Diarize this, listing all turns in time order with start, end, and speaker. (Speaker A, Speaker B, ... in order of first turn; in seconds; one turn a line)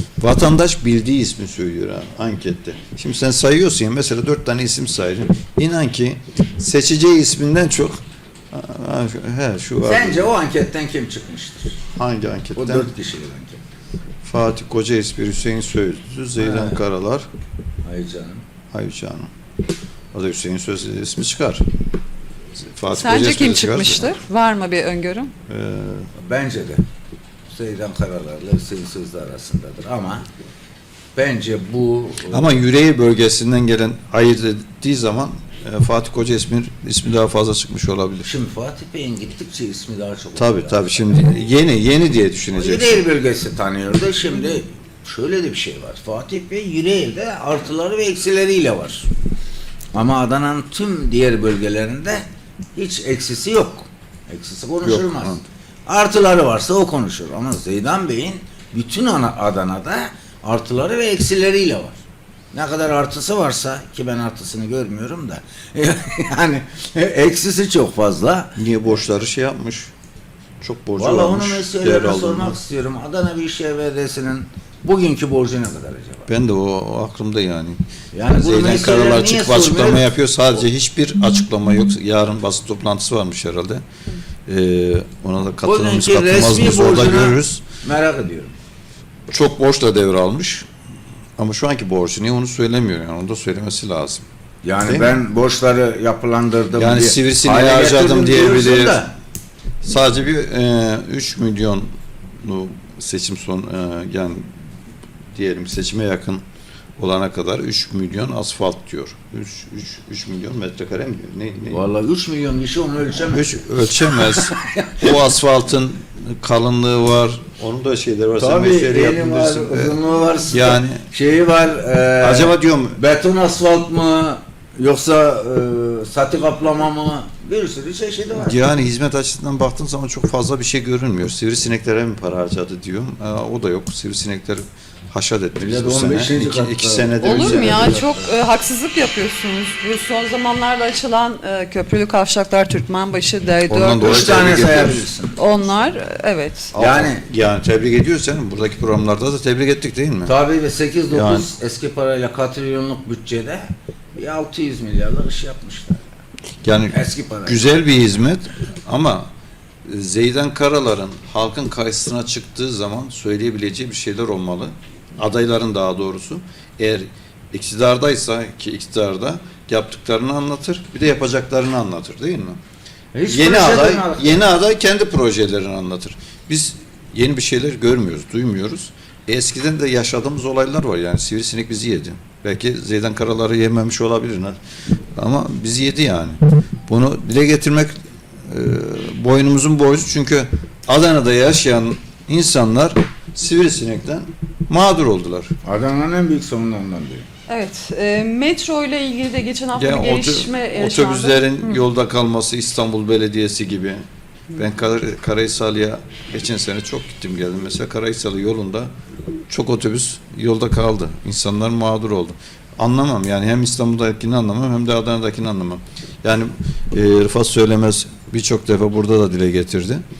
Speaker A: 0.2-10.3
Speaker B: 9.8-11.8
Speaker A: 11.9-12.9
Speaker B: 12.6-13.6
Speaker A: 14.2-17.3
Speaker B: 16.4-16.8
Speaker B: 17.8-18.4
Speaker A: 18.7-19.3
Speaker A: 20.1-21.6
Speaker A: 22.7-24.1
Speaker C: 22.9-25.3
Speaker A: 25.5-26.1
Speaker B: 26.2-26.8
Speaker B: 27.5-30.2
Speaker B: 31.1-32.6
Speaker A: 32.3-38.3
Speaker B: 38.2-41.1
Speaker A: 40.4-43.0
Speaker B: 42.5-49.1
Speaker B: 49.9-62.0
Speaker A: 54.8-55.4
Speaker B: 62.5-68.6
Speaker A: 68.5-69.9
Speaker A: 70.6-72.6
Speaker B: 71.0-76.3
Speaker A: 76.3-77.8
Speaker B: 78.1-80.1
Speaker A: 78.3-83.8
Speaker A: 84.5-87.7
Speaker B: 85.6-88.5
Speaker A: 89.3-90.7
Speaker A: 91.4-94.2
Speaker B: 94.6-99.1
Speaker A: 94.8-95.2
Speaker A: 96.7-99.0
Speaker A: 99.8-104.5
Speaker A: 105.3-106.4
Speaker A: 107.0-111.9
Speaker B: 111.7-115.2
Speaker A: 113.3-120.0
Speaker B: 118.4-128.6
Speaker A: 120.5-121.0
Speaker A: 122.2-123.0
Speaker A: 128.3-138.1
Speaker B: 135.6-138.2
Speaker C: 137.2-144.3
Speaker A: 143.7-145.1
Speaker B: 144.0-145.7
Speaker C: 145.3-146.7
Speaker A: 146.7-150.3
Speaker B: 146.7-147.2
Speaker B: 150.2-156.1
Speaker A: 151.1-151.5
Speaker A: 156.6-159.3
Speaker B: 156.9-157.7
Speaker A: 159.8-172.6
Speaker B: 173.1-174.4
Speaker A: 173.3-184.6
Speaker A: 185.2-187.9
Speaker A: 188.4-195.5
Speaker B: 195.6-197.3
Speaker C: 197.5-201.8
Speaker A: 199.7-204.0
Speaker A: 204.5-208.9
Speaker A: 209.5-220.0